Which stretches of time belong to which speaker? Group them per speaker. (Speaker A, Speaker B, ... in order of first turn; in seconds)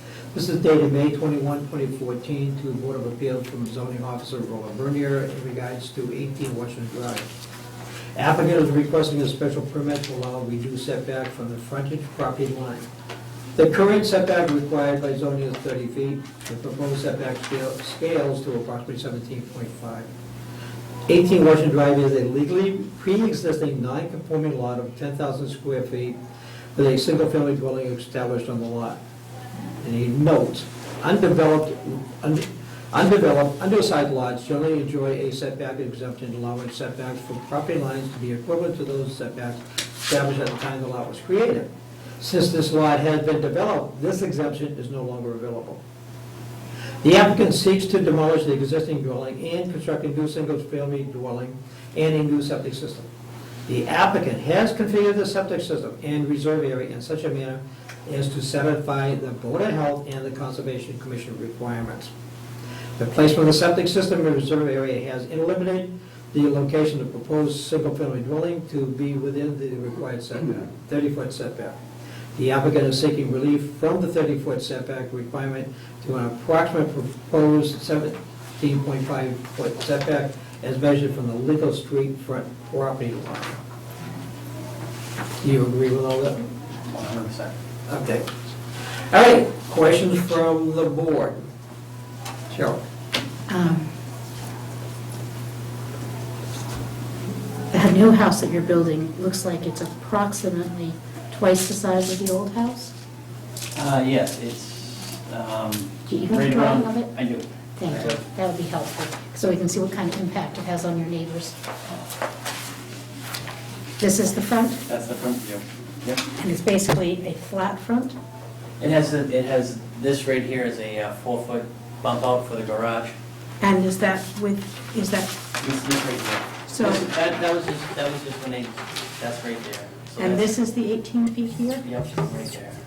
Speaker A: 0.3-7.3, 8.2-12.9, 13.6-20.1, 21.1-26.1, 26.8-29.0, 29.8-41.7, 42.2-45.8, 47.0-53.1, 53.7-62.1, 63.0-71.8, 72.4-83.6, 85.4-86.5, 87.9-88.4, 89.1-91.5, 92.5-92.8
Speaker B: 86.9-87.5, 103.8-108.2, 114.9-116.2, 118.8-123.1, 125.6-130.5, 131.8-132.8
Speaker C: 93.5-93.9, 97.7-102.9, 106.1-107.1, 107.8-111.6, 114.0-114.8, 116.4-118.2, 123.6-125.4, 126.7-127.1, 130.2-131.8